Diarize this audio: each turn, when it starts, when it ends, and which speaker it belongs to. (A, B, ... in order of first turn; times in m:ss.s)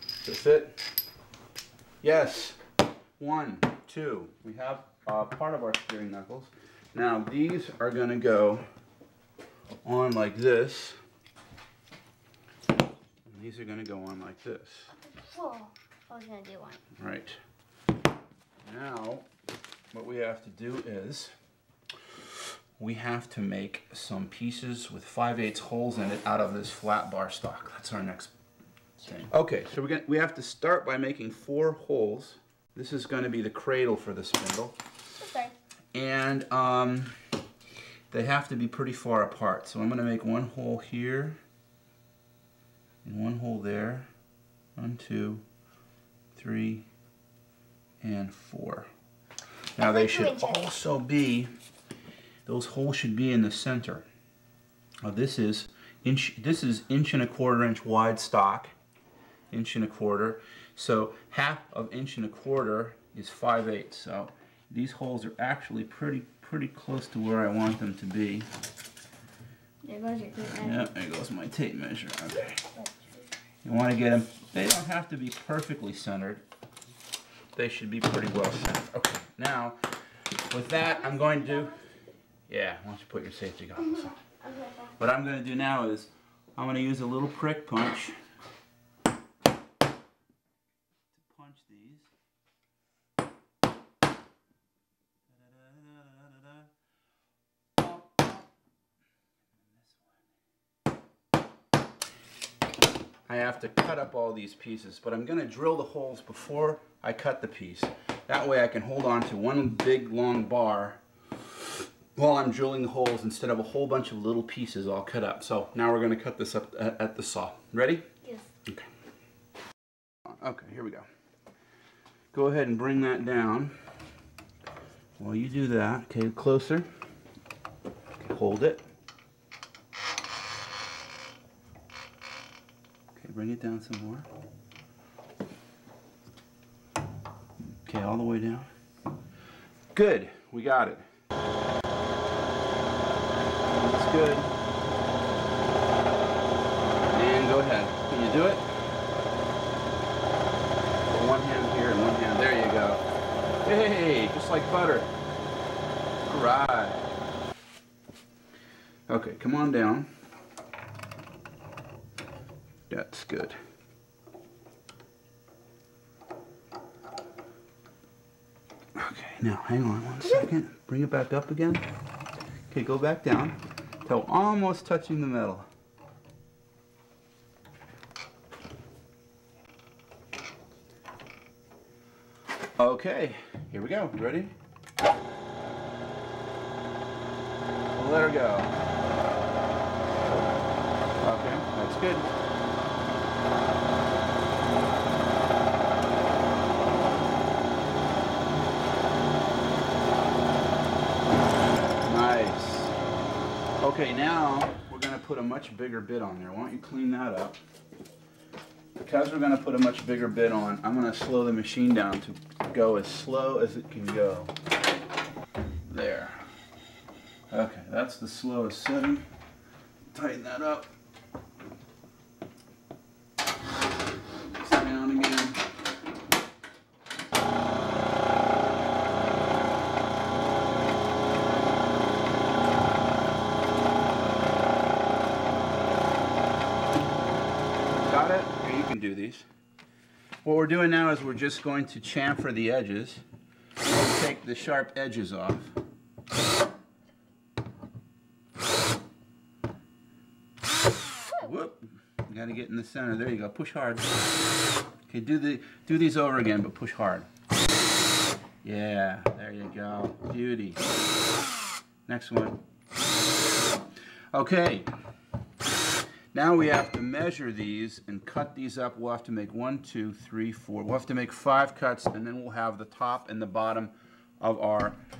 0:00.2-0:00.8 A
0:02.0-0:02.6 A
0:03.2-0:08.6 A
0:09.8-0:11.0 A
0:13.2-0:14.9 A
0:15.2-0:16.8 B
0:16.9-0:17.4 A
0:18.6-0:19.3 A
0:19.9-0:21.3 A
0:22.8-0:28.3 A
0:29.1-0:34.8 A
0:35.2-0:35.5 B
0:35.9-0:37.1 A
0:38.1-0:41.4 A
0:43.0-0:44.1 A
0:44.8-0:45.4 A
0:46.3-0:46.8 A
0:48.0-0:48.9 A
0:49.8-0:51.5 A
0:49.8-0:50.6 B
0:52.4-0:54.0 A
0:55.0-0:58.7 A
0:59.5-1:08.5 A
1:09.8-1:10.9 B
1:10.6-1:12.6 A
1:12.8-1:13.2 B
1:13.6-1:16.4 A
1:17.5-1:19.8 A
1:20.5-1:21.8 A
1:22.5-1:24.2 A
1:25.0-1:28.2 A
1:31.1-1:32.1 A
1:35.3-1:36.7 A
1:39.7-1:40.1 A
1:43.3-1:58.1 A
2:00.3-2:01.1 A
2:02.3-2:03.7 A
2:05.2-2:06.9 A
2:08.2-2:08.8 A
2:13.2-2:14.3 A
2:17.8-2:18.7 A
2:19.9-2:21.0 A
2:23.7-2:24.5 A
2:27.1-2:28.7 A
2:31.1-2:33.0 A
2:33.6-2:35.1 A
2:36.2-2:37.0 A
2:39.1-2:40.1 A
2:42.9-2:43.6 A
2:49.0-2:51.8 A
2:52.7-2:55.6 A
3:02.8-3:04.5 A
3:07.9-3:08.7 A
3:11.2-3:12.3 A
3:22.0-3:22.9 A
3:23.8-3:27.6 A
3:29.0-3:34.5 A
3:35.8-3:36.4 A
3:37.5-3:39.2 A
3:40.1-3:40.9 A
3:44.5-3:45.6 A
3:58.0-3:59.4 A
4:00.4-4:03.2 A
4:03.8-4:05.7 A
4:11.3-4:14.1 A
4:15.1-4:17.3 A
4:18.6-4:20.8 A
4:22.0-4:22.6 A
4:24.3-4:24.9 A
4:26.3-4:35.0 A